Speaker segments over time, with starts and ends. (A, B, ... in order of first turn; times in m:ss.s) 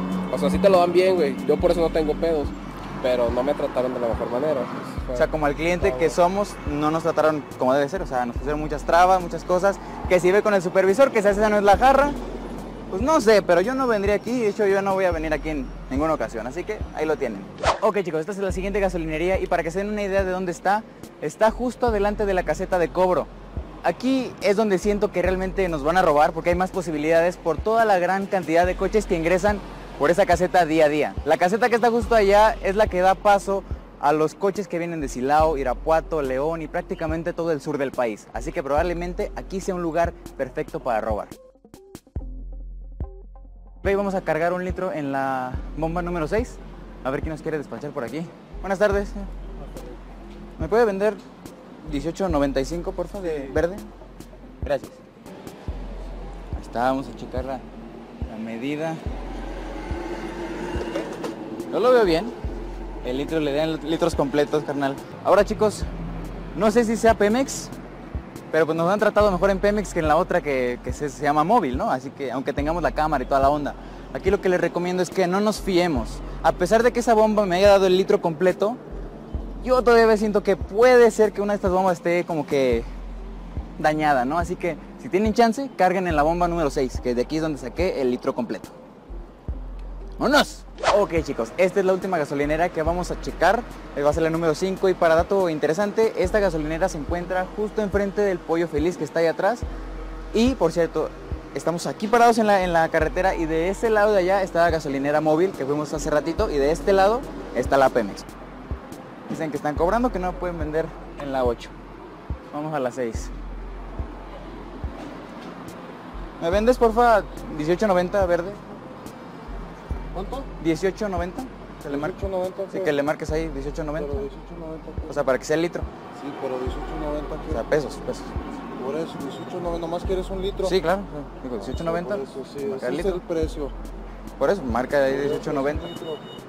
0:00.3-0:06.2 A
0:05.1-0:12.2 B
0:12.9-0:23.3 B
0:23.8-0:41.3 B
0:43.8-0:49.3 B
0:49.6-0:49.9 A
0:50.6-0:51.2 B
0:51.8-0:53.9 B
0:53.2-0:53.6 A
0:54.6-0:55.0 B
0:56.5-0:57.6 B
0:58.3-0:59.0 B
1:01.7-1:02.4 B
1:03.0-1:05.9 B
1:06.5-1:07.7 B
1:08.5-1:18.8 B
1:19.6-1:22.9 B
1:23.8-1:28.8 B
1:30.2-1:39.6 B
1:40.3-1:48.3 B
1:49.3-1:51.7 B
1:52.5-1:53.3 B
1:56.4-1:58.6 B
2:00.1-2:00.5 A
2:00.6-2:02.2 B
2:01.9-2:03.0 A
2:02.7-2:04.3 B
2:04.0-2:05.2 A
2:05.1-2:05.9 B
2:06.1-2:07.6 A
2:07.5-2:08.3 B
2:08.8-2:10.8 A
2:10.6-2:13.2 B
2:11.6-2:13.7 A
2:14.4-2:15.9 B
2:15.0-2:16.2 A